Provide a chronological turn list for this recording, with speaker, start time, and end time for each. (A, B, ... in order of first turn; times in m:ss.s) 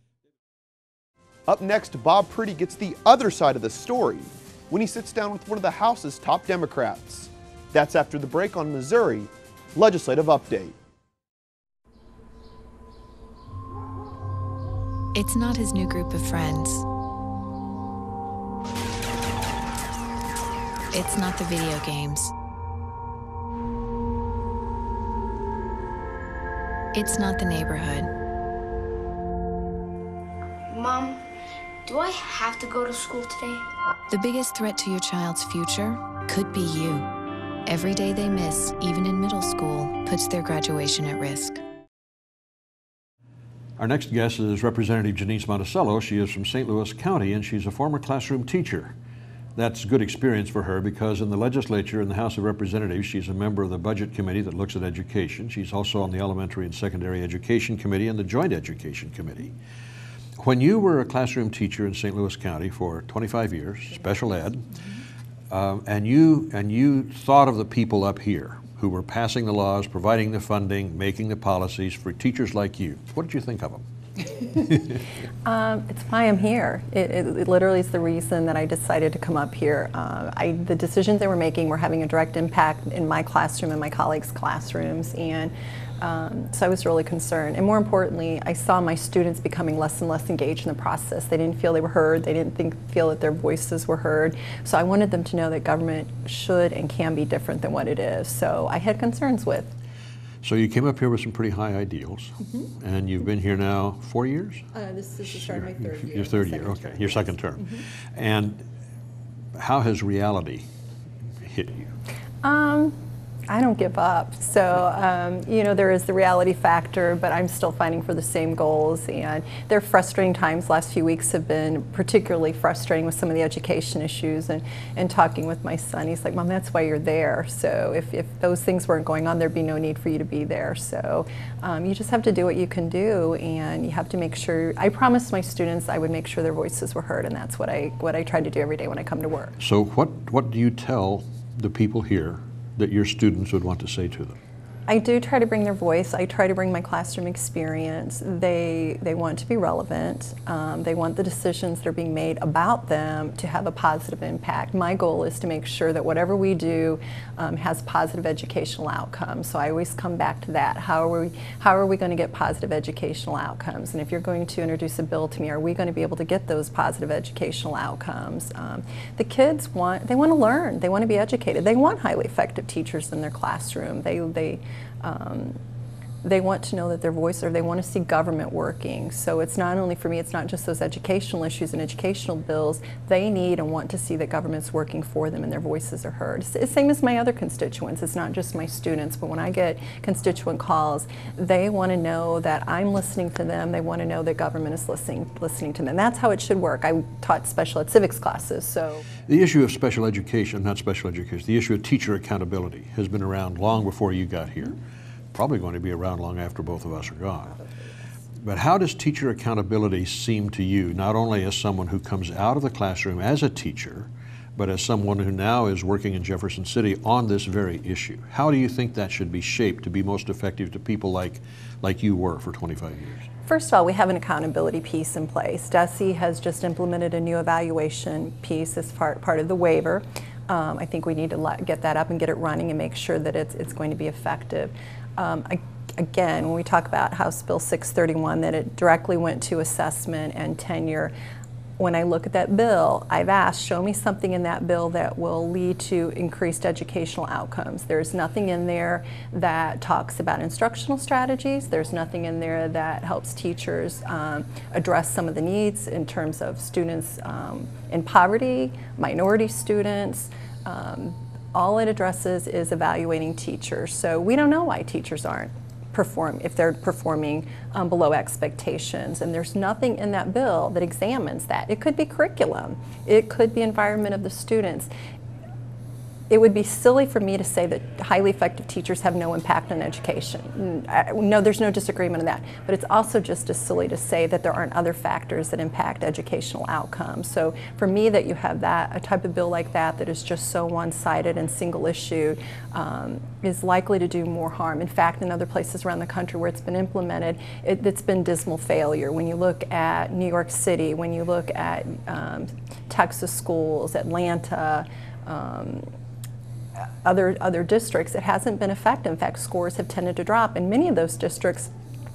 0:01.5-0:10.8 A
0:15.1-0:16.8 B
0:20.9-0:22.3 B
0:26.9-0:28.1 B
0:30.7-0:31.2 C
0:31.9-0:33.6 C
0:34.1-0:37.1 B
0:37.7-0:41.6 B
0:43.8-0:48.9 D
0:49.6-0:59.6 D
1:00.4-1:04.7 D
1:05.5-1:13.8 D
1:15.5-1:39.7 E
1:40.4-1:44.6 D
1:44.7-1:47.8 E
1:45.3-1:48.7 D
1:49.6-1:50.6 D
1:51.4-1:51.9 D
1:52.4-1:53.0 E
1:53.5-2:19.5 E
2:19.6-2:24.4 D
2:24.9-2:55.6 E
2:56.2-3:19.0 E
3:19.3-3:24.8 D
3:25.3-3:27.6 D
3:28.4-3:43.3 D
3:43.4-4:01.1 E
4:01.8-4:34.9 E
4:36.3-5:05.9 E
5:07.0-5:11.7 E